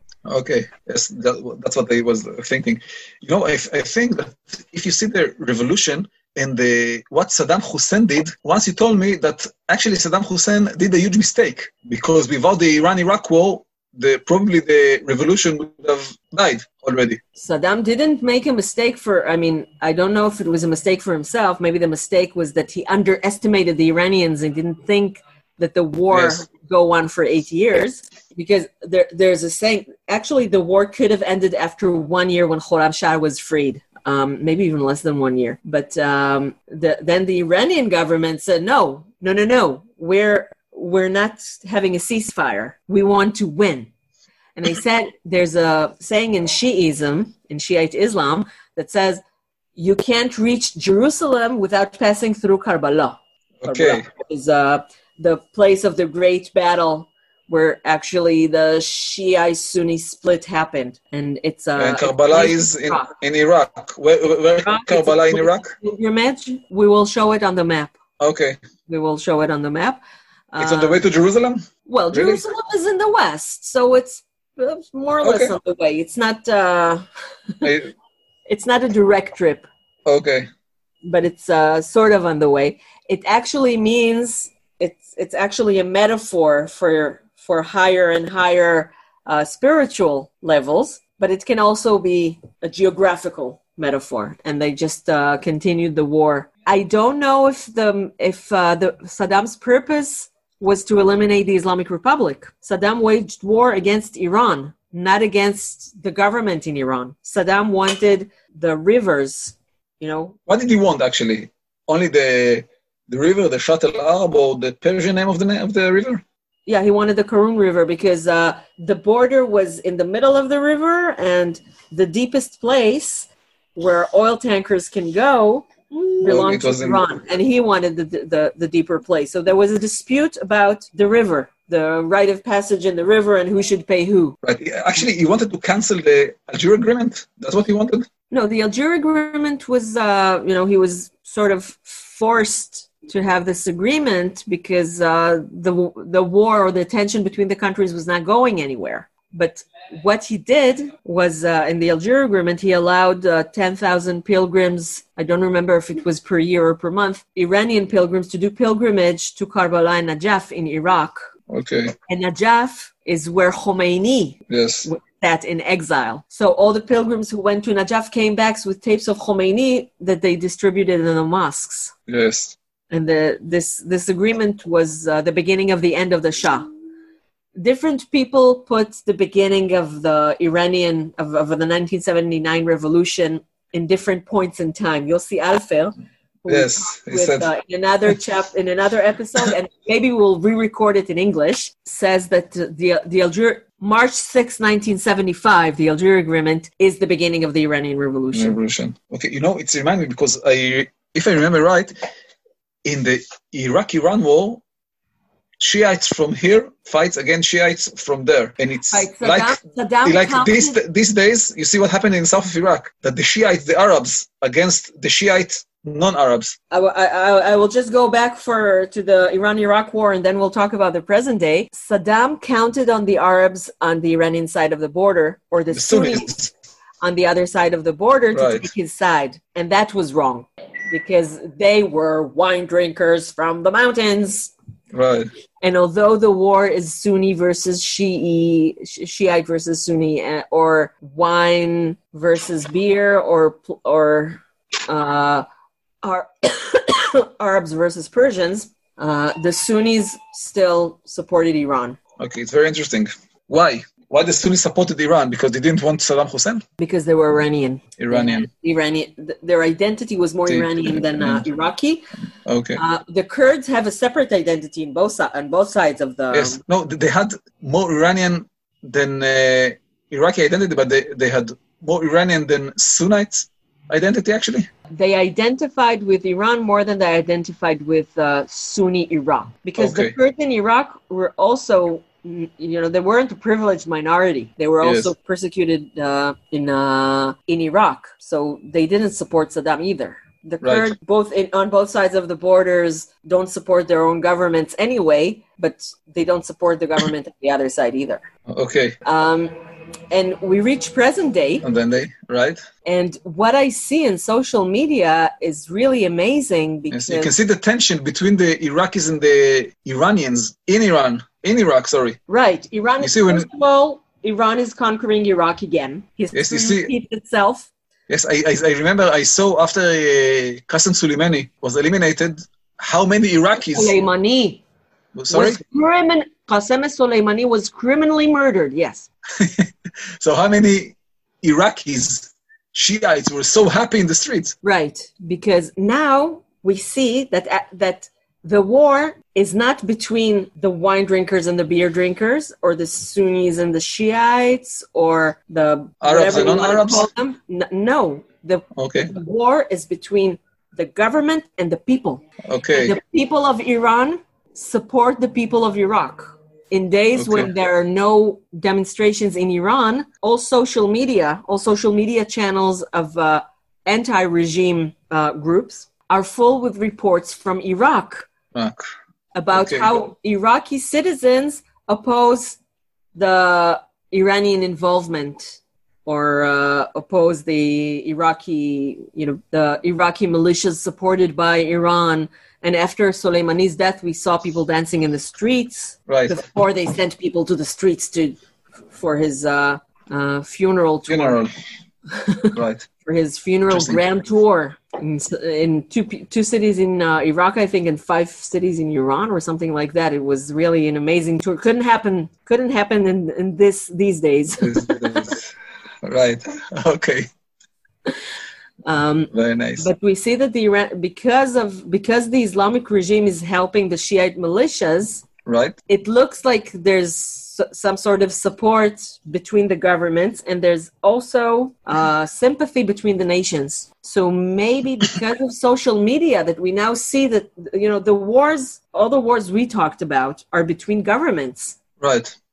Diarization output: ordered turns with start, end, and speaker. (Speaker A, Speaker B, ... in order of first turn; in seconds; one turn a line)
Speaker A: 0.2-17.2
Speaker B: 17.4-43.9
Speaker A: 26.1-26.4
Speaker B: 44.5-49.2
Speaker B: 49.8-63.1
Speaker A: 53.6-54.1
Speaker A: 61.8-65.7
Speaker B: 64.6-68.0
Speaker A: 68.2-68.6
Speaker B: 68.9-70.0
Speaker B: 70.5-71.0
Speaker A: 70.6-72.4
Speaker B: 71.8-77.0
Speaker A: 75.2-75.5
Speaker A: 77.6-77.9
Speaker B: 78.5-79.7
Speaker A: 80.0-80.5
Speaker B: 81.0-110.3
Speaker A: 110.5-116.2
Speaker B: 116.7-134.4
Speaker A: 126.2-127.0
Speaker A: 134.4-138.1
Speaker B: 138.3-161.3
Speaker A: 161.5-161.9
Speaker B: 162.1-171.9
Speaker A: 164.5-164.9
Speaker A: 172.1-172.5
Speaker B: 172.9-176.7
Speaker B: 177.6-198.6
Speaker A: 186.5-187.5
Speaker A: 198.3-201.9
Speaker A: 202.8-204.6
Speaker A: 205.6-216.6
Speaker B: 208.9-210.8
Speaker B: 216.7-226.3
Speaker A: 225.7-226.5
Speaker B: 227.0-234.5
Speaker A: 228.3-228.7
Speaker A: 234.9-235.3
Speaker B: 235.6-245.4
Speaker B: 246.0-252.0
Speaker A: 252.2-256.6
Speaker B: 256.8-262.0
Speaker A: 258.0-258.5
Speaker A: 260.5-261.4
Speaker A: 262.4-262.8
Speaker B: 262.8-266.6
Speaker A: 266.3-274.7
Speaker B: 274.9-298.2
Speaker A: 279.8-280.1
Speaker A: 284.8-285.1
Speaker A: 290.6-290.9
Speaker A: 298.5-299.0
Speaker B: 299.0-299.5
Speaker B: 300.1-301.6
Speaker A: 301.6-302.6
Speaker B: 302.9-307.3
Speaker A: 306.9-312.2
Speaker B: 312.3-317.7
Speaker A: 313.0-313.4
Speaker A: 316.3-316.9
Speaker A: 318.1-323.9
Speaker B: 323.7-324.6
Speaker A: 325.1-325.6
Speaker B: 325.3-329.1
Speaker A: 329.4-329.7
Speaker A: 330.2-334.5
Speaker B: 334.6-352.2
Speaker A: 346.0-347.1
Speaker A: 348.8-349.1
Speaker A: 352.5-353.0
Speaker B: 352.7-368.3
Speaker A: 357.1-357.5
Speaker A: 368.5-368.9
Speaker B: 369.3-372.6
Speaker A: 369.5-369.9
Speaker B: 373.1-388.4
Speaker A: 386.1-386.3
Speaker B: 388.9-391.4
Speaker A: 391.1-391.5
Speaker B: 392.1-405.2
Speaker A: 392.5-392.9
Speaker A: 393.7-394.0
Speaker A: 404.6-405.5
Speaker A: 406.0-407.3
Speaker B: 408.8-415.2
Speaker A: 409.3-409.9
Speaker A: 415.4-415.8
Speaker B: 415.9-431.8
Speaker A: 432.0-432.3